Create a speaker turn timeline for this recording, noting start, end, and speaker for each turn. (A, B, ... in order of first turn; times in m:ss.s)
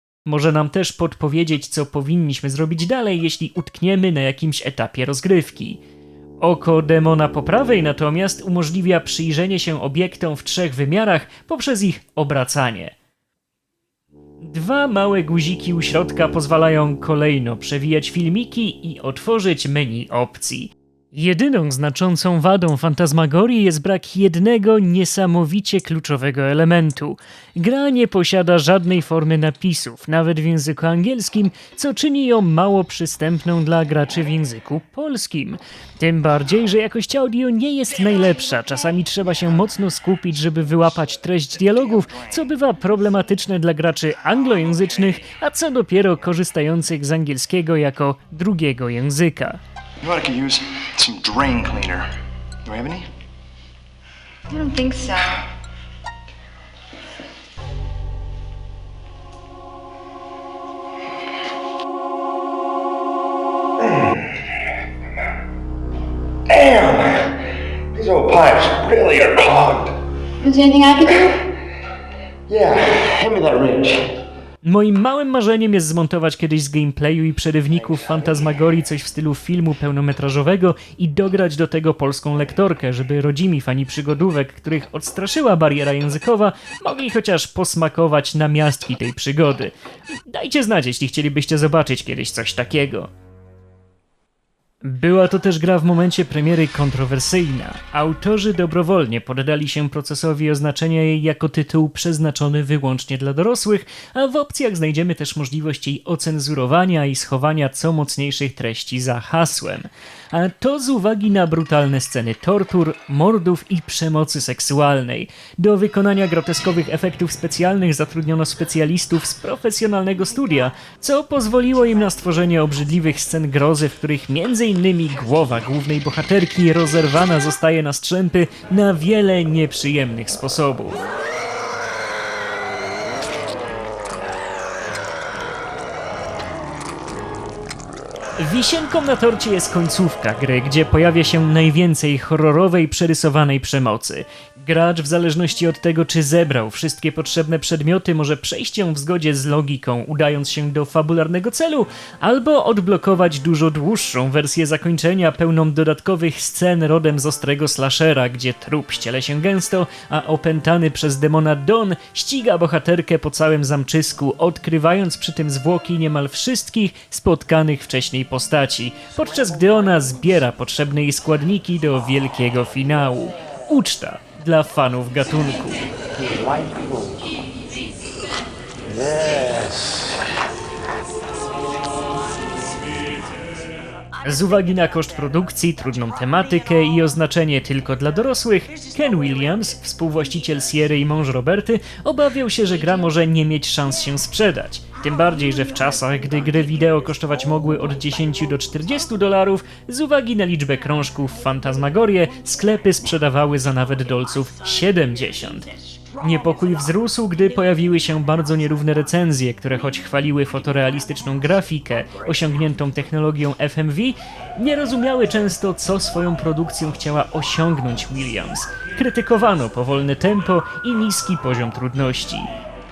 0:00.3-0:05.8 A
0:06.4-0:13.0 A
0:14.4-0:49.6 A
0:50.0-0:52.0 B
0:52.8-0:53.0 B
0:54.5-0:55.5 C
1:03.9-1:04.2 D
1:06.5-1:10.0 D
1:10.4-1:11.5 C
1:12.5-1:14.1 D
1:14.6-1:29.8 A
1:30.3-1:33.1 A
1:34.8-2:11.0 A
2:18.4-2:55.8 A
2:56.2-2:57.1 D
2:58.9-3:00.1 D
3:04.2-3:42.5 A